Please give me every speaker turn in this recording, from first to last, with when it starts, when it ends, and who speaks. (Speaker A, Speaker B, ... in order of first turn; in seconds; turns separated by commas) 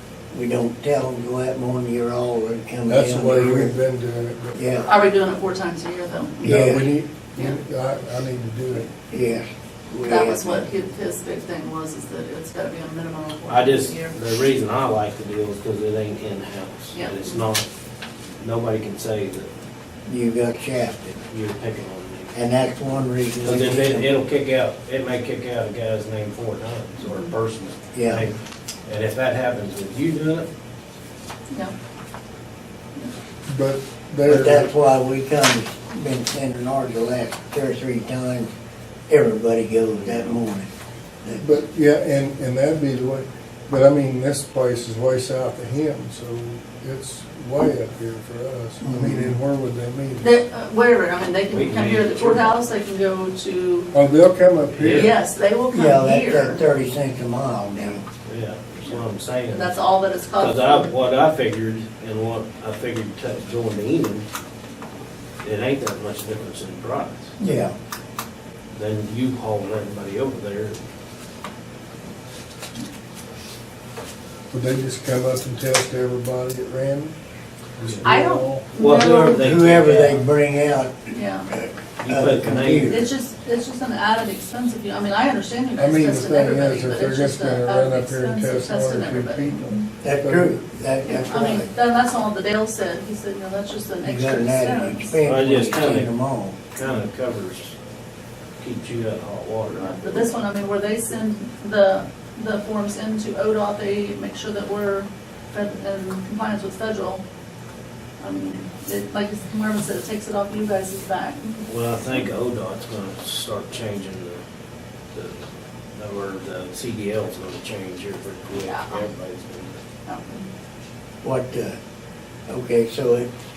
Speaker A: 0.3-3.8, Speaker B: 2.9-4.6, Speaker A: 4.6-4.9, Speaker C: 4.9-6.4, Speaker A: 6.4-6.9, Speaker B: 6.4-8.9, Speaker A: 9.0-10.7, Speaker C: 10.0-14.2, Speaker D: 13.5-17.7, Speaker C: 16.9-17.5, Speaker D: 18.4-19.5, Speaker A: 20.1-21.1, Speaker D: 21.2-22.4, Speaker A: 22.3-24.1, Speaker D: 23.4-30.5, Speaker C: 27.0-27.3, Speaker A: 27.9-28.3, Speaker B: 33.5-34.7, Speaker A: 34.2-38.5, Speaker A: 39.1-40.7, Speaker A: 41.2-41.5, Speaker B: 41.4-50.4, Speaker A: 48.8-49.4, Speaker C: 50.2-53.9, Speaker D: 51.5-52.5, Speaker B: 53.9-55.1, Speaker D: 54.7-55.2, Speaker C: 54.8-56.6, Speaker A: 55.7-58.0, Speaker D: 58.2-59.8, Speaker C: 58.9-60.9, Speaker D: 60.4-64.3, Speaker D: 65.4-67.3, Speaker A: 67.4-67.8, Speaker D: 68.7-70.8, Speaker B: 74.5-77.2, Speaker B: 77.8-78.7, Speaker D: 77.8-78.1, Speaker C: 78.0-79.5, Speaker D: 78.8-80.2, Speaker A: 79.3-83.1, Speaker C: 81.1-81.5, Speaker D: 82.0-83.1, Speaker C: 82.8-89.7, Speaker B: 85.8-90.6, Speaker A: 90.0-91.7, Speaker C: 91.0-95.2, Speaker A: 94.0-96.6, Speaker D: 95.2-96.1, Speaker D: 96.7-97.8, Speaker D: 98.6-100.0, Speaker C: 99.7-107.2, Speaker C: 108.2-111.6, Speaker D: 111.7-114.4, Speaker D: 115.1-115.4, Speaker D: 116.0-119.8, Speaker C: 118.6-119.0, Speaker C: 120.1-120.5, Speaker A: 121.2-121.8, Speaker A: 122.5-123.3